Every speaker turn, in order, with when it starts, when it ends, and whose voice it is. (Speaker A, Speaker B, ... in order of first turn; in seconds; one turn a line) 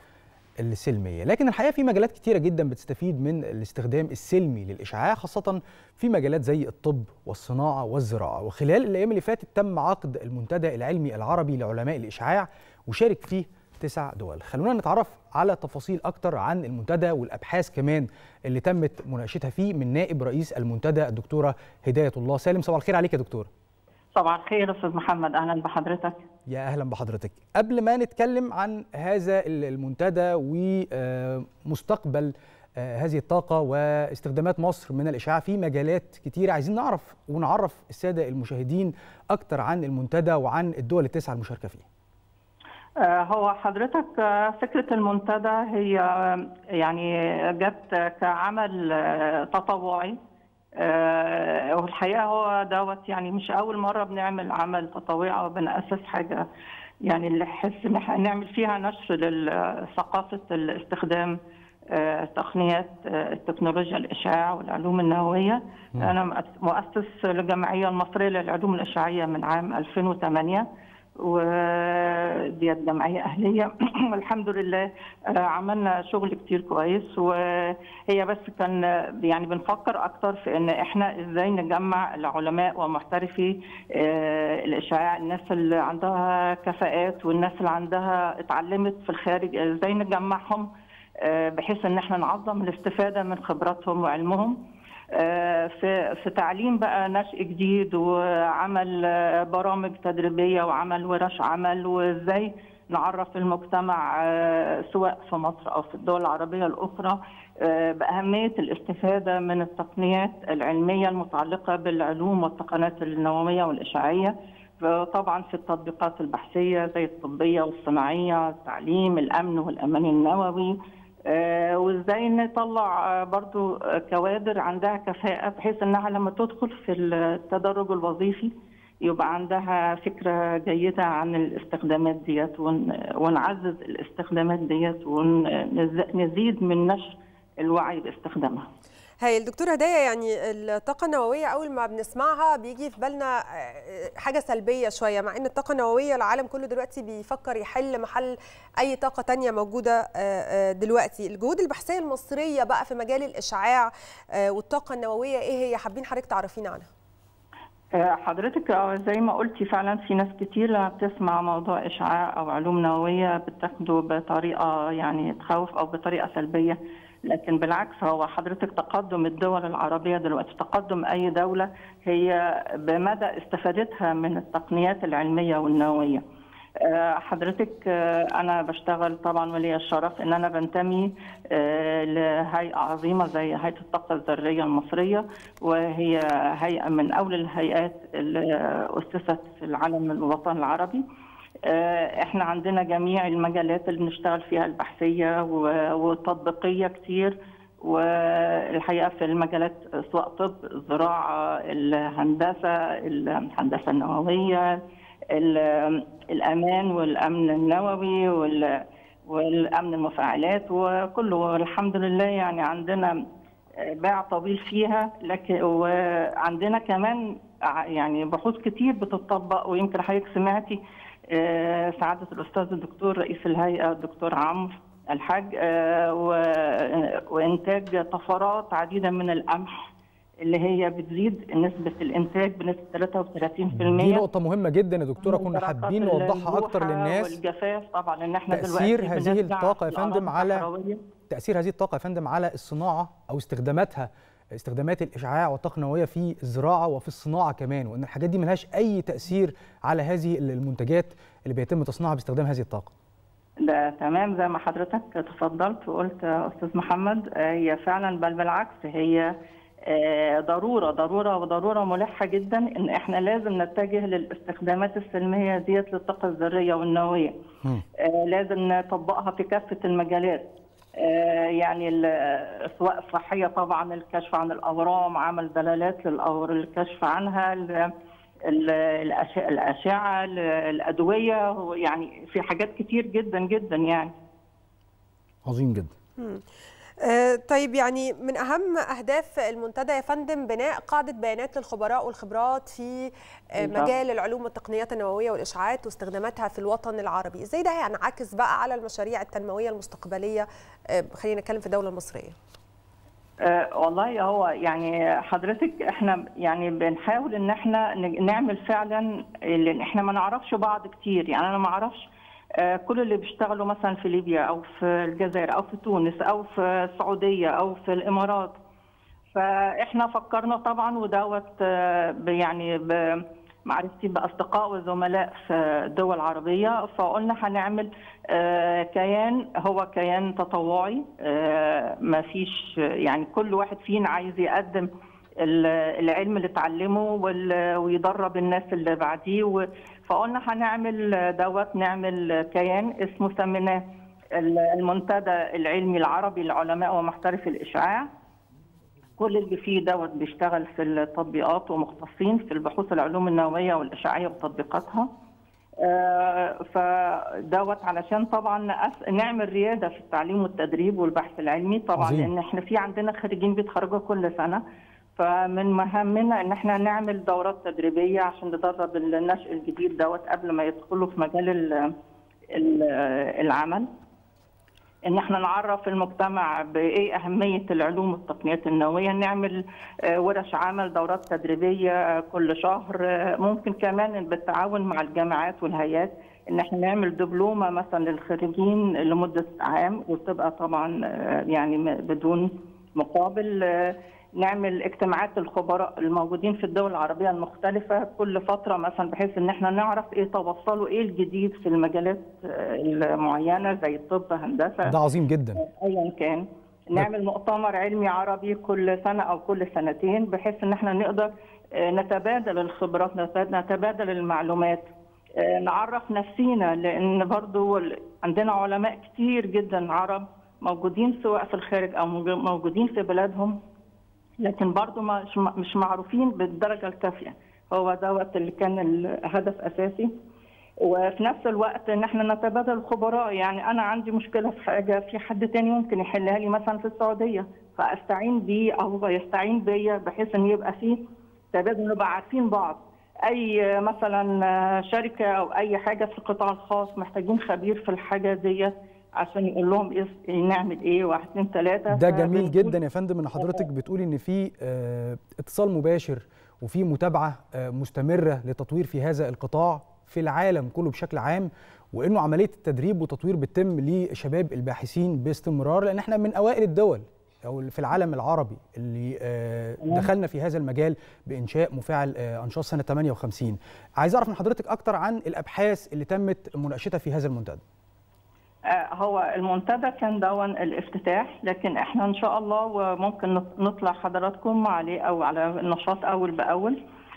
Speaker A: 0.6-23.5
Speaker B: 24.1-26.2
Speaker A: 26.5-41.8
Speaker B: 43.0-50.1
Speaker B: 50.8-56.4
Speaker B: 57.0-61.3
Speaker B: 61.9-70.7
Speaker B: 71.2-90.7
Speaker B: 91.2-94.6
Speaker B: 95.1-120.8
Speaker B: 121.3-128.5
Speaker B: 129.0-138.7
Speaker C: 139.2-156.9
Speaker B: 158.0-176.2
Speaker B: 176.8-191.0
Speaker B: 191.6-204.8
Speaker B: 205.3-213.1
Speaker B: 213.8-229.9
Speaker B: 230.4-234.3
Speaker A: 233.8-237.3
Speaker B: 235.2-241.0
Speaker A: 238.5-240.7
Speaker A: 241.3-252.9
Speaker B: 253.6-259.3
Speaker B: 259.9-267.3
Speaker B: 268.0-270.5
Speaker B: 271.0-277.9
Speaker B: 278.4-284.1
Speaker A: 285.4-285.9
Speaker C: 286.2-286.4
Speaker C: 287.0-302.3
Speaker B: 293.6-293.9
Speaker B: 303.4-318.6
Speaker B: 319.3-334.9
Speaker B: 335.4-343.8
Speaker B: 344.4-348.1
Speaker B: 349.2-355.1
Speaker B: 355.8-364.6
Speaker A: 361.9-362.3
Speaker B: 365.2-371.9
Speaker B: 372.5-373.9
Speaker B: 375.1-404.9
Speaker A: 404.8-405.6
Speaker B: 405.6-423.6
Speaker B: 424.4-430.1
Speaker B: 430.8-441.0
Speaker B: 441.5-452.8
Speaker A: 451.9-477.6
Speaker B: 453.4-453.6
Speaker B: 478.7-486.8